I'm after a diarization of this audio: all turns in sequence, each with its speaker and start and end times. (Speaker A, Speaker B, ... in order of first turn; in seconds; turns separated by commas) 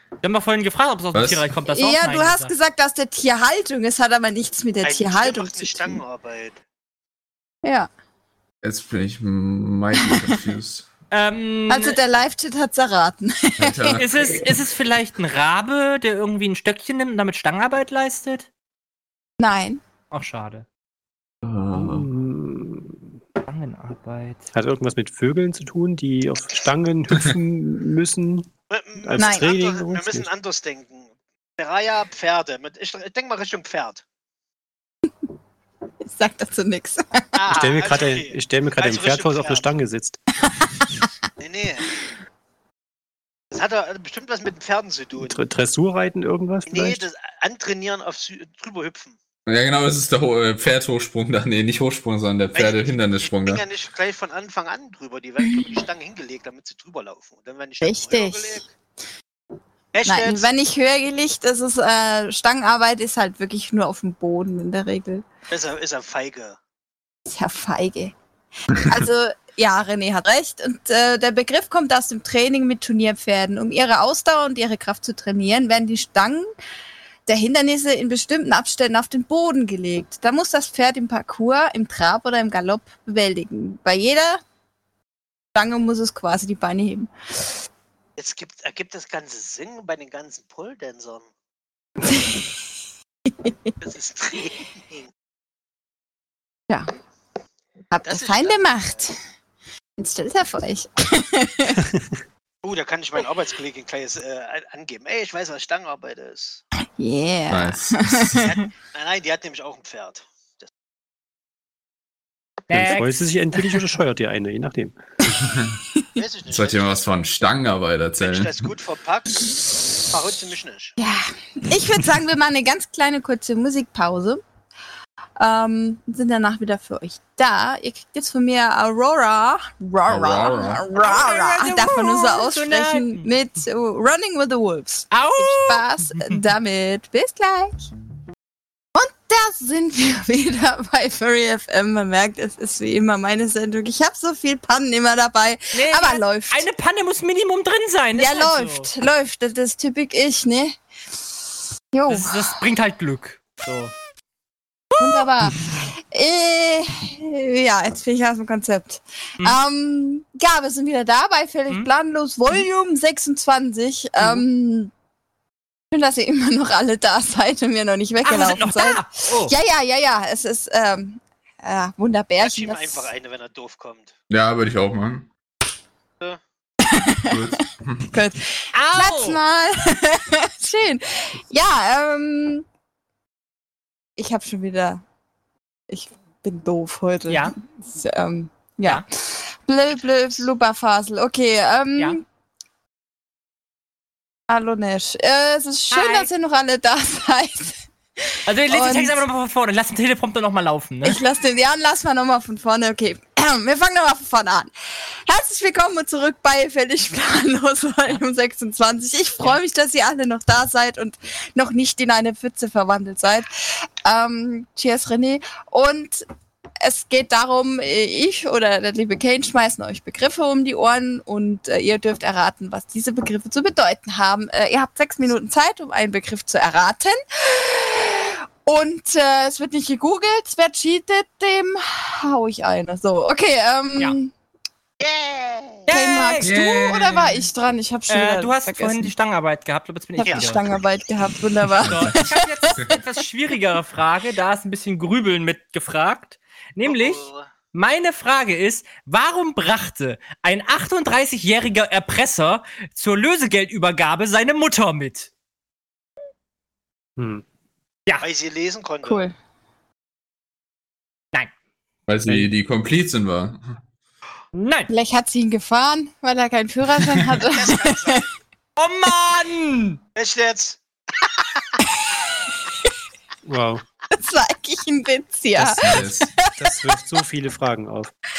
Speaker A: 0.2-2.5, Speaker B: 1.1-1.5, Speaker C: 1.7-6.0, Speaker D: 4.8-6.6, Speaker C: 7.6-7.9, Speaker B: 8.6-10.9, Speaker A: 11.1-12.0, Speaker C: 11.7-14.0, Speaker B: 13.6-14.5, Speaker A: 13.9-18.5, Speaker C: 19.4-19.8, Speaker A: 20.1-20.6, Speaker B: 21.4-22.1, Speaker E: 21.7-23.1, Speaker A: 23.4-24.5, Speaker E: 24.5-28.5, Speaker D: 28.7-34.0, Speaker E: 29.0-30.3, Speaker C: 29.2-29.5, Speaker C: 36.0-37.5, Speaker D: 37.4-39.7, Speaker E: 37.5-40.2, Speaker C: 40.5-40.8, Speaker D: 41.4-42.0, Speaker D: 43.5-45.4, Speaker E: 45.2-47.0, Speaker D: 46.7-49.2, Speaker B: 49.5-53.6, Speaker D: 52.5-58.7, Speaker C: 57.8-58.6, Speaker D: 59.9-60.5, Speaker C: 60.0-65.2, Speaker D: 65.5-66.6, Speaker C: 67.3-68.1, Speaker C: 68.7-76.5, Speaker C: 77.2-84.4, Speaker C: 85.5-87.5, Speaker D: 88.2-91.3, Speaker C: 92.1-92.5, Speaker C: 93.3-93.7, Speaker D: 93.8-95.1, Speaker C: 97.9-99.2, Speaker D: 98.0-99.1, Speaker C: 100.0-101.8, Speaker E: 101.9-102.2, Speaker D: 102.6-106.6, Speaker C: 107.0-108.6, Speaker B: 107.5-108.5, Speaker D: 108.4-110.7, Speaker A: 112.7-113.3, Speaker E: 112.7-114.9, Speaker B: 115.4-115.8, Speaker D: 116.2-117.0, Speaker B: 116.5-118.5, Speaker D: 118.2-121.0, Speaker C: 121.0-124.4, Speaker C: 125.4-137.9, Speaker B: 130.0-130.8, Speaker A: 131.0-133.3, Speaker A: 135.1-136.4, Speaker C: 138.9-146.7, Speaker A: 145.7-148.9, Speaker C: 148.1-150.8, Speaker C: 151.9-152.5, Speaker A: 152.1-153.9, Speaker A: 154.9-155.3, Speaker C: 155.0-164.9, Speaker C: 165.9-173.1, Speaker A: 168.2-169.5, Speaker D: 172.4-174.1, Speaker B: 174.3-175.3, Speaker C: 176.8-177.5, Speaker B: 177.2-178.1, Speaker C: 178.1-182.7, Speaker A: 178.7-179.4, Speaker C: 184.2-185.0, Speaker C: 185.9-192.2, Speaker A: 187.3-187.5, Speaker D: 189.9-190.4, Speaker C: 194.5-199.2, Speaker A: 195.9-196.3, Speaker A: 198.5-201.2, Speaker C: 201.0-204.7, Speaker C: 205.2-213.5, Speaker C: 214.0-216.2, Speaker C: 216.8-234.3, Speaker D: 235.0-235.9, Speaker A: 235.9-236.9, Speaker C: 235.9-239.1, Speaker B: 236.4-237.4, Speaker A: 238.1-240.6, Speaker C: 240.2-243.0, Speaker D: 240.2-240.5, Speaker B: 241.7-242.2, Speaker A: 241.8-255.3, Speaker D: 246.8-247.5, Speaker E: 257.2-257.4, Speaker D: 258.2-259.2, Speaker C: 259.0-259.3, Speaker B: 262.1-263.6, Speaker A: 264.5-264.9, Speaker C: 264.9-268.2, Speaker D: 267.4-268.4, Speaker A: 268.8-270.0, Speaker D: 270.1-271.8, Speaker E: 273.4-273.8, Speaker C: 274.1-276.9, Speaker B: 275.5-276.3, Speaker E: 275.9-278.1